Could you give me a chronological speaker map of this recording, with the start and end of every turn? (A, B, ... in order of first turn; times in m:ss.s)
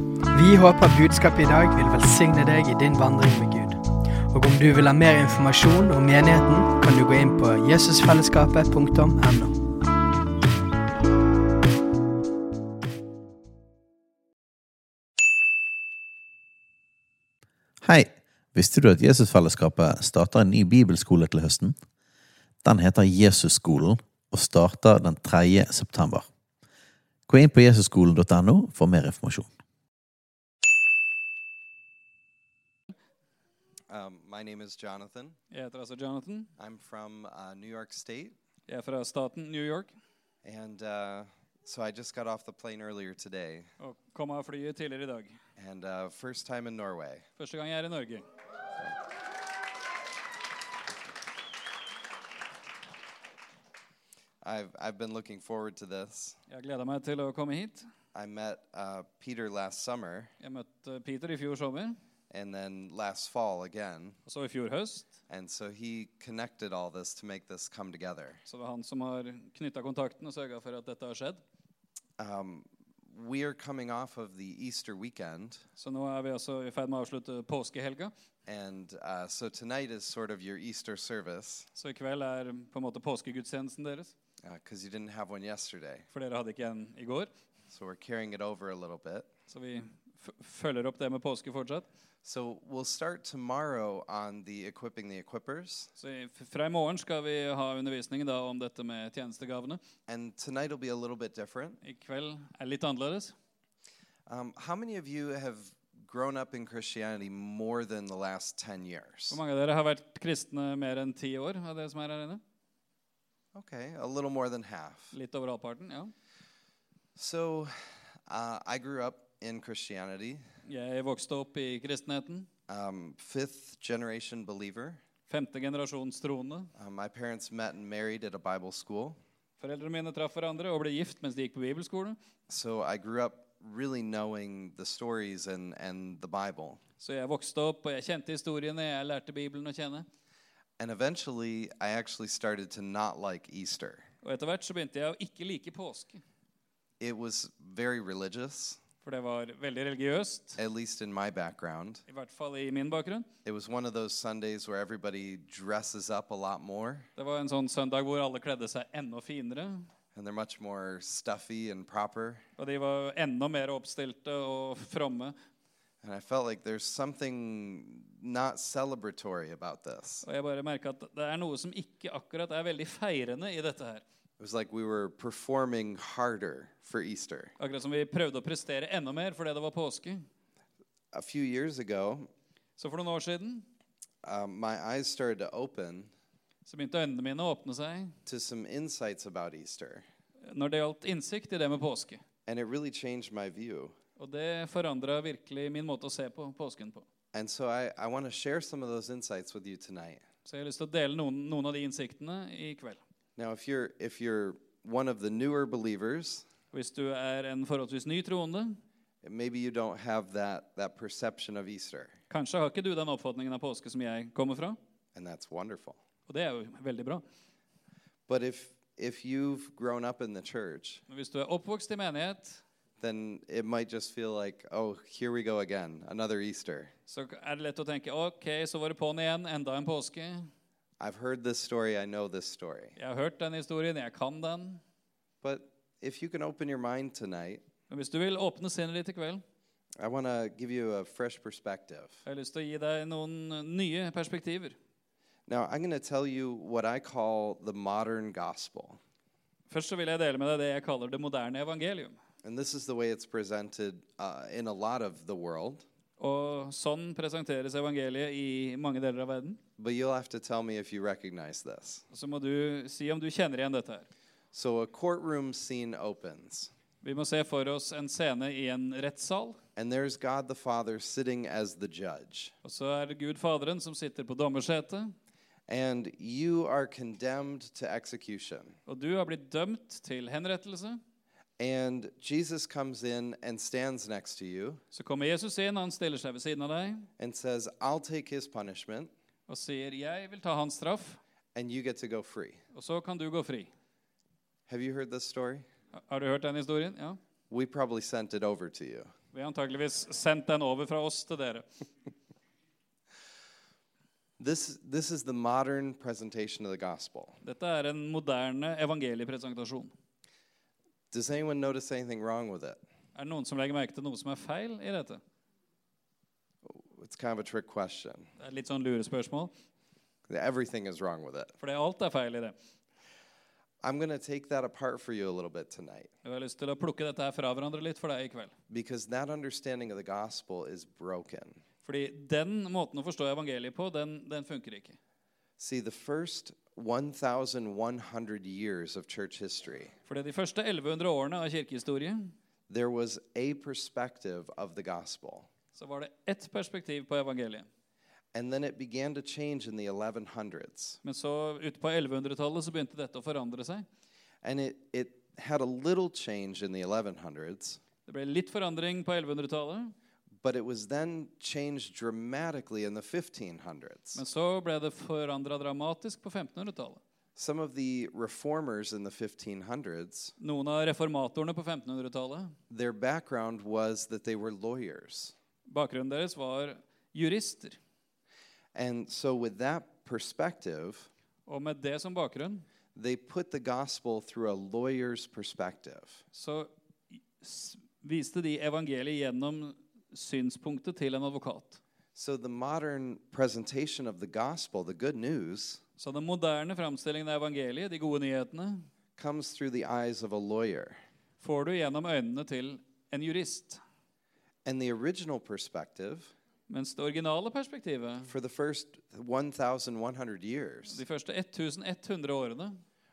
0:00.3-0:09.6 A
0:17.8-0:21.8 B
0:22.6-0:26.3 B
0:27.3-0:29.5 B
0:33.9-0:35.4 C
0:35.5-0:36.5 D
0:36.6-0:38.4 C
0:38.7-0:39.9 D
0:40.4-0:43.7 C
0:43.8-0:45.4 D
0:45.6-0:47.3 C
0:47.4-0:48.3 D
0:54.4-0:56.4 C
0:56.5-0:57.9 D
0:58.1-1:00.3 C
1:00.4-1:02.0 D
1:02.3-1:04.2 C
1:04.3-1:05.1 D
1:05.3-1:08.4 C
1:08.5-1:11.4 D
1:12.2-1:15.6 C
1:15.8-1:18.1 D
1:18.5-1:21.7 C
1:21.8-1:24.1 D
1:24.4-1:26.1 C
1:26.1-1:27.3 D
1:27.7-1:29.3 C
1:29.5-1:31.9 D
1:32.2-1:35.9 C
1:36.0-1:39.8 D
1:40.1-1:41.8 C
1:41.8-1:43.3 D
1:44.3-1:49.4 C
1:49.3-1:52.4 D
1:53.5-1:55.1 C
1:55.1-1:56.1 D
1:57.2-2:00.4 C
2:00.7-2:02.5 D
2:02.7-2:05.0 C
2:05.3-2:06.7 D
2:06.8-2:09.2 C
2:09.6-2:12.2 D
2:12.5-2:16.8 C
2:17.0-2:20.1 D
2:20.8-2:24.1 C
2:24.2-2:26.2 D
2:27.0-2:28.8 C
2:29.0-2:30.6 D
2:30.6-2:32.0 C
2:32.1-2:33.3 D
2:33.4-2:37.1 C
2:37.2-2:39.9 D
2:40.1-2:42.4 C
2:42.6-2:45.4 D
2:46.0-2:50.3 C
2:50.2-2:54.0 D
2:54.4-2:57.5 C
2:57.6-3:00.3 D
3:01.1-3:02.3 C
3:02.8-3:03.7 D
3:04.2-3:06.1 C
3:06.7-3:08.2 D
3:08.3-3:10.0 C
3:10.4-3:12.2 D
3:12.5-3:14.0 C
3:14.2-3:17.0 D
3:17.3-3:20.2 C
3:20.4-3:23.0 D
3:23.4-3:26.5 C
3:26.7-3:28.8 D
3:29.2-3:32.2 C
3:32.3-3:34.8 D
3:35.2-3:36.0 C
3:36.3-3:37.2 D
3:38.3-3:41.0 C
3:41.1-3:42.6 D
3:43.0-3:46.9 C
3:47.1-3:50.5 D
3:51.0-3:53.0 C
3:53.0-3:54.8 D
3:55.4-3:57.6 C
3:57.9-3:59.4 D
4:00.0-4:02.2 C
4:02.3-4:04.8 D
4:05.5-4:09.0 C
4:09.7-4:12.2 D
4:12.4-4:15.8 C
4:16.2-4:19.6 D
4:19.8-4:22.0 C
4:22.1-4:24.1 D
4:24.5-4:26.7 C
4:27.0-4:29.6 D
4:29.8-4:32.5 C
4:32.6-4:35.1 D
4:35.7-4:38.8 C
4:38.9-4:41.0 D
4:41.6-4:44.8 C
4:44.9-4:47.1 D
4:47.2-4:49.1 C
4:49.5-4:51.2 D
4:51.6-4:52.6 C
4:52.7-4:53.7 D
4:54.7-4:55.7 C
4:56.0-4:57.2 D
4:57.5-4:59.1 C
4:59.3-5:01.7 D
5:04.4-5:07.4 C
5:07.4-5:09.9 D
5:11.1-5:12.8 C
5:13.2-5:15.2 D
5:16.6-5:18.3 C
5:18.4-5:19.5 D
5:20.3-5:21.5 C
5:21.6-5:22.6 D
5:23.8-5:26.1 C
5:26.2-5:28.5 D
5:28.7-5:31.6 C
5:31.8-5:35.0 D
5:35.6-5:39.9 C
5:40.1-5:42.4 D
5:42.7-5:45.5 C
5:45.8-5:47.7 D
5:48.3-5:51.0 C
5:51.0-5:53.9 D
5:54.4-5:57.8 C
5:58.1-6:00.0 D
6:00.4-6:04.2 C
6:04.2-6:07.0 D
6:07.4-6:10.3 C
6:10.4-6:12.6 D
6:12.7-6:15.4 C
6:15.7-6:17.8 D
6:18.7-6:21.1 C
6:21.5-6:22.7 D
6:23.0-6:26.2 C
6:26.3-6:31.8 D
6:32.2-6:35.8 C
6:36.0-6:38.9 D
6:39.2-6:41.0 C
6:41.4-6:43.8 D
6:44.6-6:46.3 C
6:46.7-6:48.3 D
6:48.3-6:51.0 C
6:50.9-6:52.8 D